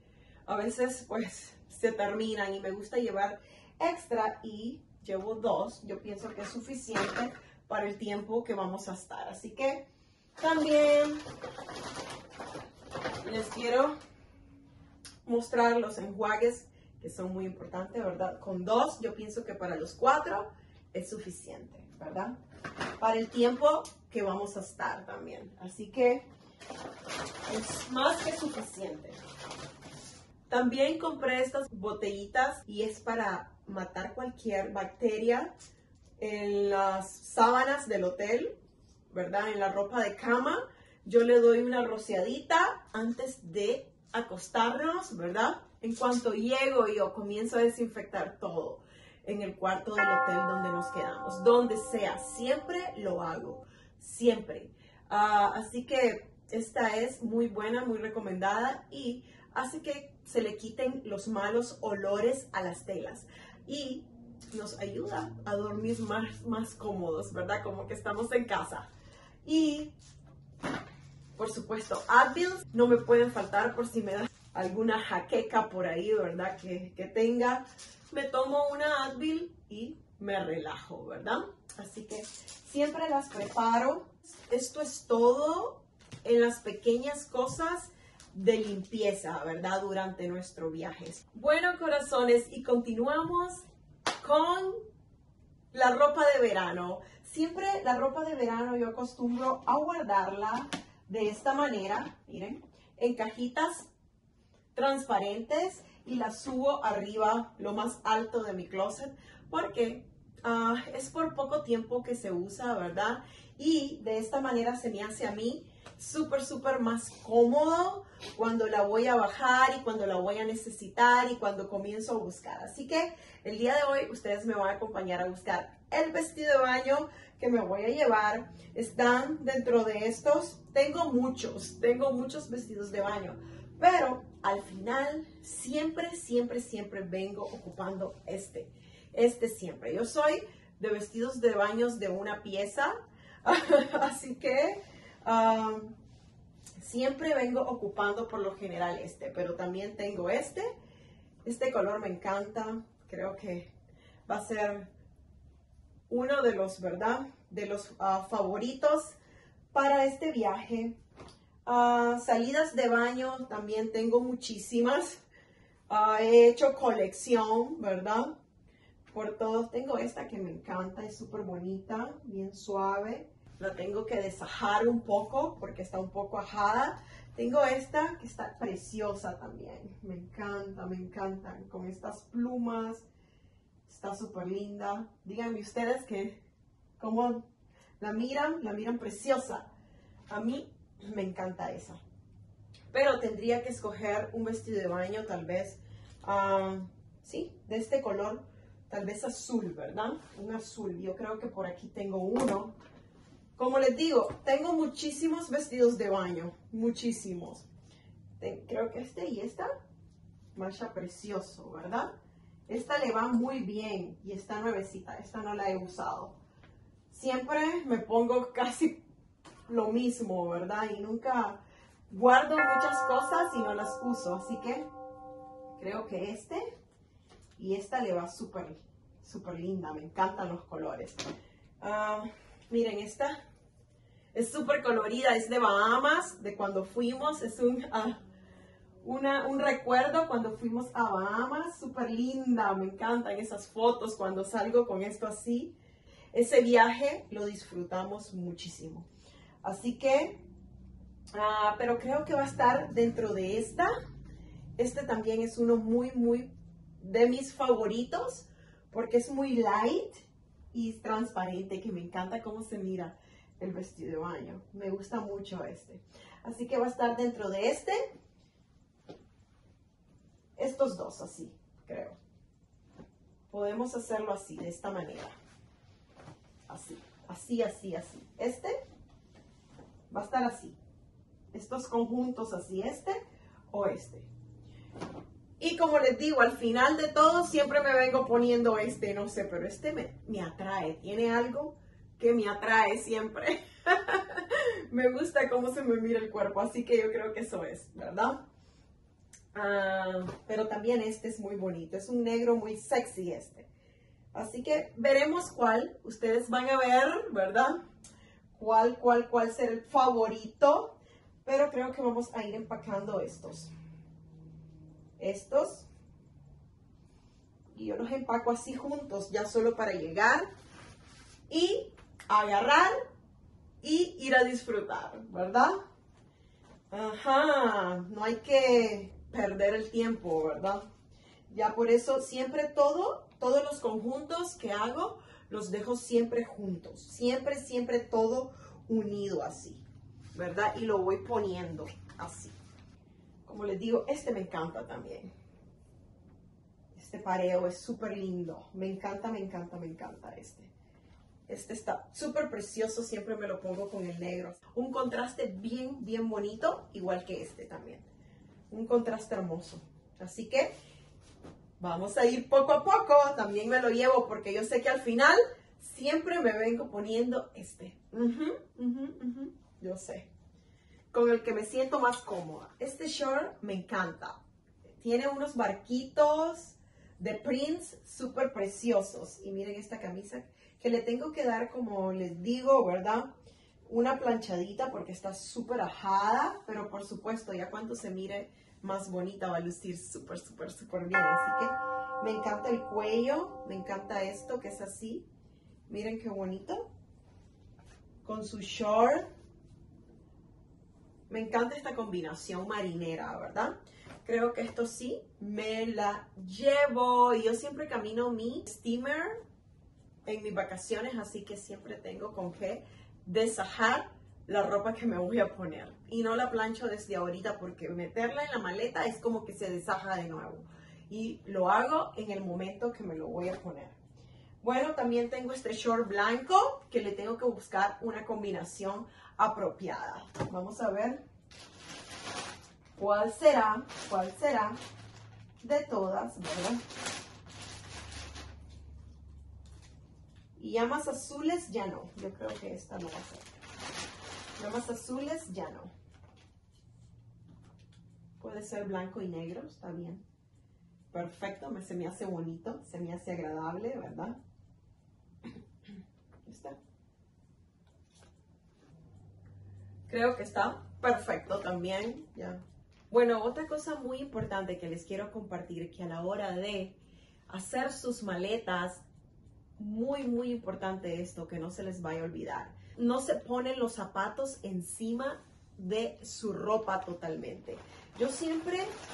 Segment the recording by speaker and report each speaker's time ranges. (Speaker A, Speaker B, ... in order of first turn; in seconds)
Speaker A: 0.5-9.9, 10.4-11.2, 13.2-13.9, 15.2-22.3, 23.0-26.3, 27.5-29.2, 30.5-35.5, 36.2-38.5, 39.1-68.9, 69.4-69.9, 71.3-93.7, 94.2-94.8, 95.7-103.9, 104.7-142.9, 143.4-145.9, 146.8-150.7, 151.4-153.7, 154.3-154.9, 156.1-159.2, 159.7-161.0, 161.6-165.2, 165.9-168.3, 169.1-183.1, 183.9-186.4, 187.0-187.5, 188.0-189.7, 190.3-192.0, 192.9-202.8, 203.6-207.7, 208.4-209.7, 210.5-212.1, 212.7-216.3, 217.1-219.0, 219.7-224.9, 225.8-226.6, 227.6-231.2, 231.8-233.4, 234.3-238.2, 239.0-245.7, 246.3-249.1, 249.6-250.4, 251.3-253.9, 254.8-256.5, 257.0-268.0, 270.6-272.1, 273.5-275.3, 276.7-278.8, 280.1-280.8, 281.5-283.2, 283.7-284.3, 285.6-298.4, 299.5-303.7, 304.3-307.8, 308.5-313.7, 315.2-315.9, 317.7-320.4, 321.5-322.9, 323.8-325.7, 326.9-330.8, 331.5-339.8, 340.3-342.5, 343.4-345.3, 346.9-350.7, 351.5-358.0, 358.7-360.7, 361.8-370.3, 371.1-374.4, 375.0-383.3, 383.9-395.2, 395.9-396.9, 398.2-399.3, 401.3-409.4, 410.2-424.0, 424.6-431.2, 433.0-434.8, 435.6-436.8, 440.6-443.5, 444.6-445.9, 448.4-450.2, 451.1-454.4, 456.4-456.8, 460.1-467.0, 467.5-469.0, 469.8-478.9